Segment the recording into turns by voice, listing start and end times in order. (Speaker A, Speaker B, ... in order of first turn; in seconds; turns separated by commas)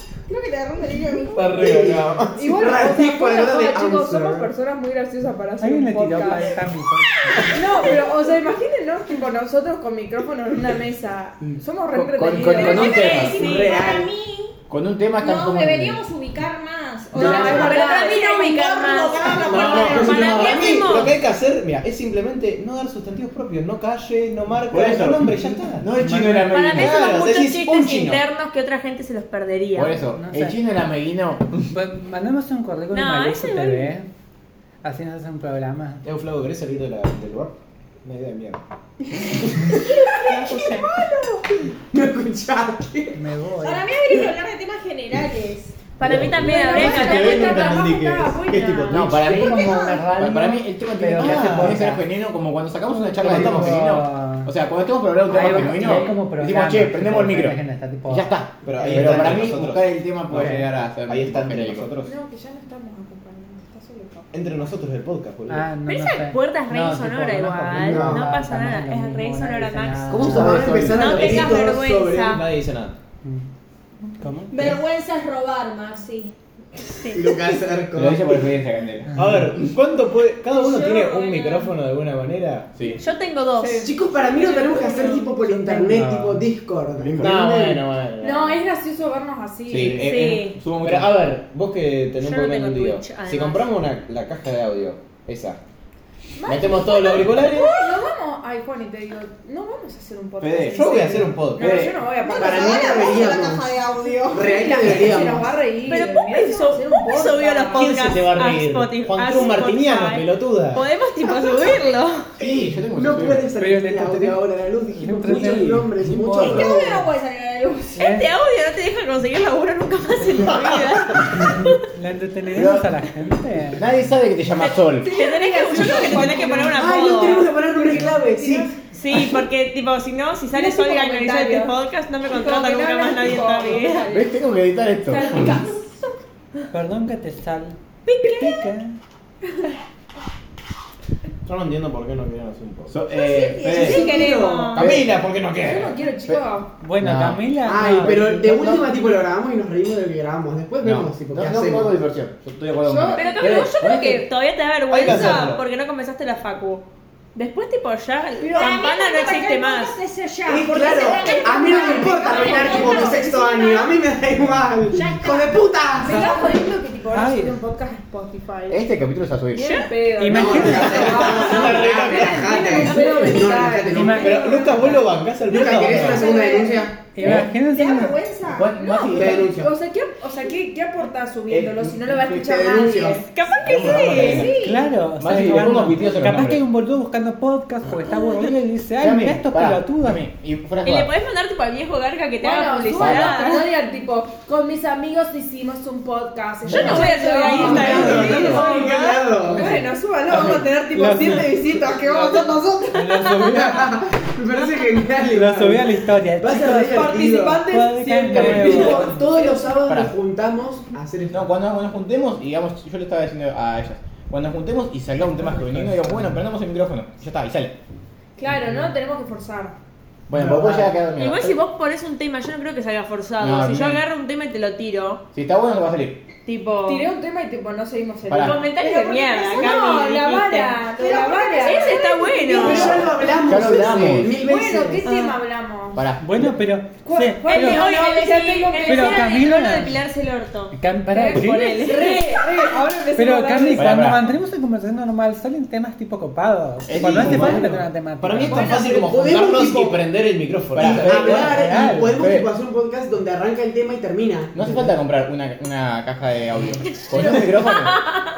Speaker A: 0.3-1.8, Speaker B: 1.3-2.5, Speaker C: 1.6-4.5, Speaker D: 2.3-6.5, Speaker E: 5.6-7.5, Speaker D: 7.5-13.2, Speaker F: 11.9-13.5, Speaker A: 12.4-14.6, Speaker G: 12.7-13.8, Speaker C: 13.3-14.1, Speaker F: 14.7-16.0, Speaker A: 15.2-20.9, Speaker D: 17.1-18.3, Speaker G: 17.1-21.1, Speaker C: 19.4-20.9, Speaker B: 19.5-25.9, Speaker F: 24.7-27.0, Speaker E: 25.4-26.6, Speaker G: 26.5-30.0, Speaker B: 26.7-28.2, Speaker F: 29.7-31.7, Speaker E: 30.1-30.6, Speaker E: 31.7-34.1, Speaker G: 32.9-33.9, Speaker E: 34.8-36.0, Speaker B: 36.0-38.6, Speaker A: 39.7-41.4, Speaker G: 40.2-40.9, Speaker C: 41.9-43.2, Speaker E: 43.1-43.9, Speaker A: 43.6-45.8, Speaker G: 46.0-47.9, Speaker B: 46.0-49.1, Speaker F: 46.1-47.9, Speaker D: 46.4-49.0, Speaker F: 48.8-61.9, Speaker A: 49.2-50.0, Speaker E: 49.3-52.0, Speaker B: 51.1-51.8, Speaker E: 52.9-54.5, Speaker B: 53.2-53.9, Speaker E: 55.3-59.4, Speaker B: 58.6-62.1, Speaker E: 60.3-60.6, Speaker D: 62.0-64.3, Speaker B: 64.3-65.7, Speaker E: 65.5-70.7, Speaker G: 65.9-70.1, Speaker C: 67.8-68.3, Speaker F: 70.1-71.2, Speaker C: 70.1-72.4, Speaker G: 70.9-72.4, Speaker B: 71.0-71.6, Speaker B: 72.3-73.0, Speaker E: 74.2-74.7, Speaker A: 74.5-76.3, Speaker C: 77.1-78.4, Speaker F: 77.9-79.2, Speaker B: 79.1-82.8, Speaker E: 79.2-79.4, Speaker A: 80.5-81.7, Speaker F: 82.8-83.0, Speaker G: 83.0-83.8, Speaker D: 83.5-85.9, Speaker C: 83.8-87.8, Speaker E: 85.8-86.5, Speaker F: 87.0-87.3, Speaker B: 87.2-88.6, Speaker D: 88.2-90.1, Speaker F: 89.7-91.2, Speaker G: 90.0-90.6, Speaker B: 90.8-95.6, Speaker G: 92.2-93.7, Speaker D: 96.3-103.2, Speaker B: 96.4-97.7, Speaker F: 100.4-100.9, Speaker B: 100.4-102.0, Speaker F: 101.6-102.0, Speaker A: 102.2-104.7, Speaker C: 102.4-103.7, Speaker C: 104.3-105.6, Speaker D: 104.4-107.9, Speaker G: 105.8-112.3, Speaker B: 107.7-110.8, Speaker F: 112.4-113.4, Speaker C: 112.9-117.0, Speaker E: 113.6-114.4, Speaker E: 115.0-116.7, Speaker A: 116.4-118.1, Speaker E: 118.0-118.3, Speaker G: 118.0-121.8, Speaker E: 121.3-123.8, Speaker F: 122.5-122.9, Speaker F: 123.8-125.1, Speaker D: 125.0-127.2, Speaker G: 125.0-127.5, Speaker C: 126.7-128.7, Speaker D: 127.7-128.7, Speaker G: 128.9-134.1, Speaker D: 130.5-131.7, Speaker D: 132.3-134.4, Speaker F: 134.1-135.6, Speaker D: 135.1-136.1, Speaker E: 136.7-139.0, Speaker G: 138.1-138.7, Speaker B: 141.4-143.0, Speaker F: 142.9-144.1, Speaker A: 143.1-144.4, Speaker G: 143.7-144.9, Speaker C: 143.8-144.8, Speaker D: 144.1-144.6, Speaker B: 144.7-146.0, Speaker F: 144.8-145.1, Speaker D: 145.6-146.7, Speaker E: 146.8-148.4, Speaker F: 147.0-148.9, Speaker C: 147.6-152.0, Speaker F: 150.8-154.2, Speaker D: 152.8-154.0, Speaker G: 153.1-159.9, Speaker B: 154.9-155.6, Speaker A: 158.4-164.0, Speaker C: 160.4-166.4, Speaker D: 161.2-163.1, Speaker A: 164.9-165.6, Speaker D: 166.0-168.8, Speaker A: 166.1-166.7, Speaker E: 167.1-167.6, Speaker F: 168.7-169.7, Speaker D: 169.5-175.1, Speaker G: 169.6-169.9, Speaker E: 170.2-171.2, Speaker C: 170.3-174.7, Speaker F: 170.7-171.2, Speaker B: 170.8-172.5, Speaker E: 173.9-175.0, Speaker B: 174.2-176.4, Speaker C: 175.4-177.0, Speaker D: 176.3-176.8, Speaker A: 176.3-178.9, Speaker E: 177.1-178.2, Speaker F: 177.2-177.5, Speaker F: 178.5-179.5, Speaker D: 178.8-183.2, Speaker C: 179.1-179.7, Speaker F: 181.5-182.3, Speaker C: 182.3-183.2, Speaker G: 183.3-184.5, Speaker F: 183.6-186.6, Speaker D: 184.1-184.7, Speaker A: 184.1-184.8, Speaker E: 184.6-190.2, Speaker F: 189.0-191.1, Speaker G: 190.8-193.7, Speaker D: 192.4-203.1, Speaker F: 193.0-193.6, Speaker G: 196.7-199.3, Speaker F: 196.7-197.1, Speaker C: 197.5-199.8, Speaker E: 197.6-197.9, Speaker E: 200.9-201.5, Speaker E: 202.9-204.1, Speaker C: 203.2-211.5, Speaker E: 205.2-209.2, Speaker D: 206.9-209.7, Speaker F: 209.8-210.1, Speaker F: 211.3-217.8, Speaker E: 215.4-216.4, Speaker D: 218.4-219.8, Speaker F: 220.3-221.6, Speaker C: 220.3-220.8, Speaker G: 221.2-225.2, Speaker F: 223.4-224.0, Speaker F: 225.3-226.2, Speaker G: 226.4-227.1, Speaker D: 226.8-233.2, Speaker F: 228.3-228.6, Speaker G: 228.3-230.8, Speaker A: 231.0-232.8, Speaker G: 231.6-233.1, Speaker C: 232.5-235.1, Speaker F: 233.4-234.3, Speaker D: 234.3-236.1, Speaker G: 235.0-235.4, Speaker F: 235.9-236.6, Speaker E: 236.2-237.9, Speaker D: 237.0-239.3, Speaker G: 237.5-242.4, Speaker E: 238.8-240.0, Speaker E: 240.7-241.7, Speaker D: 241.1-244.1, Speaker E: 243.2-248.8, Speaker F: 243.7-244.3, Speaker F: 246.9-247.8, Speaker B: 247.0-251.5, Speaker D: 248.5-248.8, Speaker C: 248.6-250.0, Speaker F: 250.7-252.5, Speaker C: 250.8-254.9, Speaker E: 251.3-252.2, Speaker F: 254.5-258.0, Speaker D: 257.1-257.5, Speaker G: 257.7-258.2